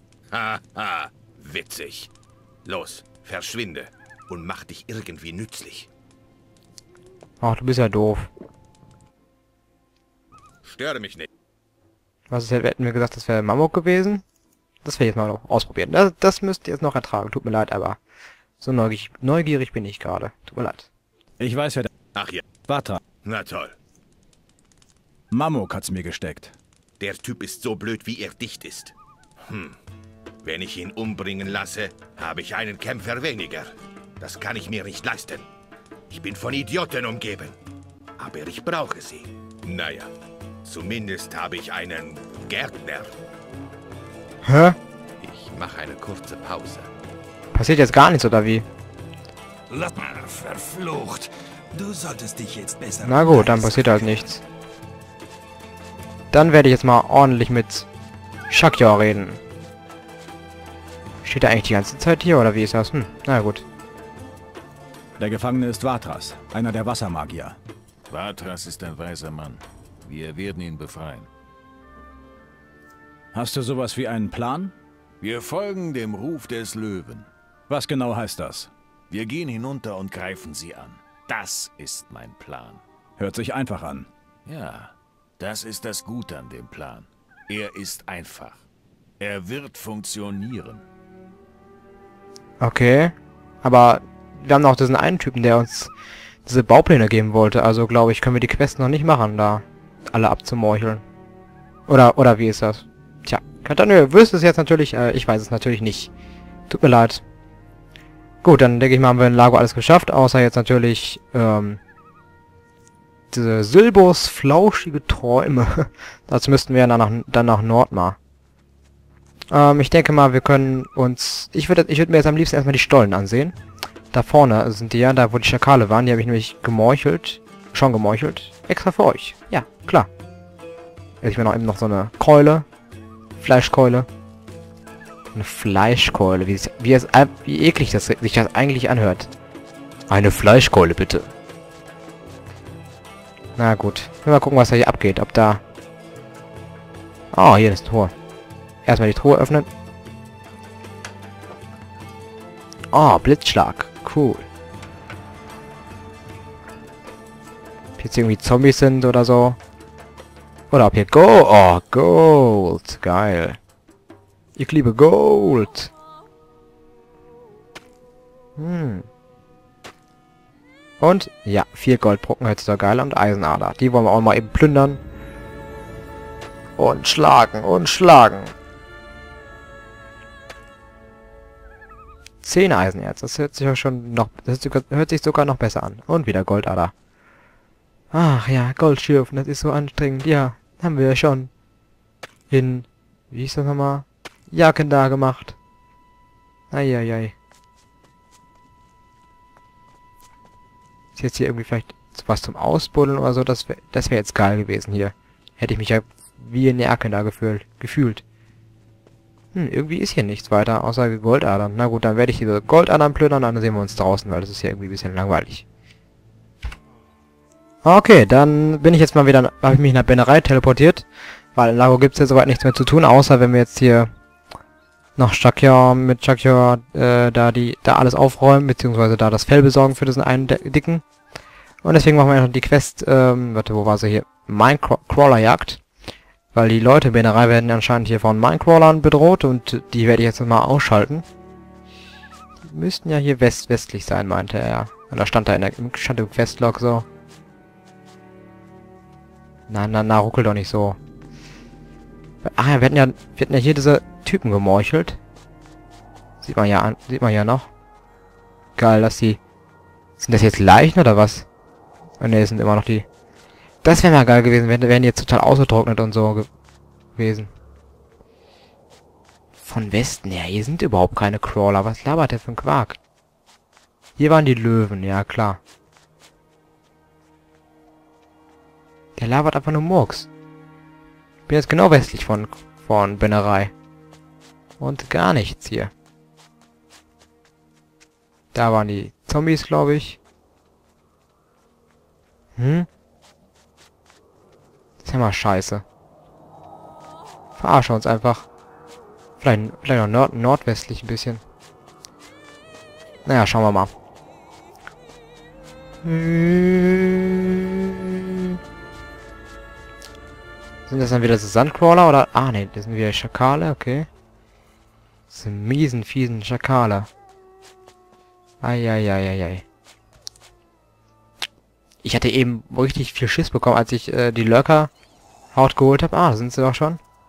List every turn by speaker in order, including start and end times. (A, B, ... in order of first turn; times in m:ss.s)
0:00.3-0:02.1 A
0:02.6-0:05.9 A
0:07.4-0:08.3 B
0:10.6-0:11.3 A
0:12.3-0:14.2 B
0:14.8-0:18.0 B
0:18.6-0:20.9 B
0:21.4-0:21.9 C
0:22.1-0:22.4 A
0:22.6-0:23.0 C
0:23.2-0:23.7 A
0:25.3-0:26.5 C
0:27.0-0:28.9 A
0:29.5-0:29.8 A
0:30.4-0:35.5 A
0:36.1-0:37.6 A
0:38.2-0:40.1 A
0:40.6-0:43.1 A
0:44.4-0:44.8 B
0:45.2-0:46.9 A
0:47.5-0:48.6 B
0:49.7-0:54.2 D
0:53.0-0:54.4 B
0:56.3-0:57.9 B
0:58.5-0:59.4 B
1:01.2-1:03.6 B
1:05.2-1:07.6 C
1:08.1-1:11.3 E
1:13.3-1:14.8 C
1:15.2-1:17.3 E
1:17.7-1:18.7 C
1:19.1-1:22.8 E
1:23.2-1:24.1 C
1:24.4-1:28.6 E
1:29.2-1:30.8 E
1:32.6-1:35.9 B
1:36.4-1:41.0 B
1:41.9-1:46.1 B
1:46.7-1:47.2 B
1:48.4-1:51.8 B
1:53.3-1:58.2 B
1:59.5-2:03.6 B
2:04.1-2:10.1 B
2:11.2-2:12.6 B
2:13.4-2:14.1 B
2:15.3-2:19.3 B
2:20.1-2:21.3 B
2:23.6-2:25.6 B
2:27.3-2:28.1 B
2:28.8-2:29.7 B
2:32.9-2:34.5 B
2:38.0-2:39.6 B
2:40.7-2:43.6 B
2:44.6-2:45.9 B
2:48.6-2:49.1 B
2:51.0-2:55.0 B
2:56.8-2:58.5 B
3:02.4-3:06.9 B
3:08.1-3:11.5 B
3:12.5-3:15.6 B
3:16.7-3:17.3 B
3:21.2-3:28.2 B
3:29.5-3:35.6 B
3:37.8-3:44.1 B
3:45.2-3:51.0 B
3:51.8-3:55.8 B
3:56.5-4:01.2 B
4:02.6-4:07.0 B
4:09.7-4:11.0 B
4:12.4-4:15.2 B
4:16.4-4:17.7 B
4:18.8-4:19.4 B
4:20.2-4:21.5 B
4:22.2-4:23.0 B
4:23.8-4:26.5 B
4:27.2-4:27.5 B
4:29.6-4:33.0 B
4:34.2-4:35.6 B
4:39.2-4:40.3 B
4:41.5-4:43.7 B
4:44.8-4:45.9 B
4:48.5-4:50.2 B
4:52.6-4:52.9 B
4:55.0-4:55.8 B
4:57.6-4:58.4 B
4:59.4-5:01.4 B
5:03.2-5:03.9 B
5:06.0-5:08.3 B
5:10.9-5:14.1 B
5:15.3-5:17.1 B
5:18.6-5:19.6 B
5:22.0-5:24.9 B
5:25.5-5:27.0 B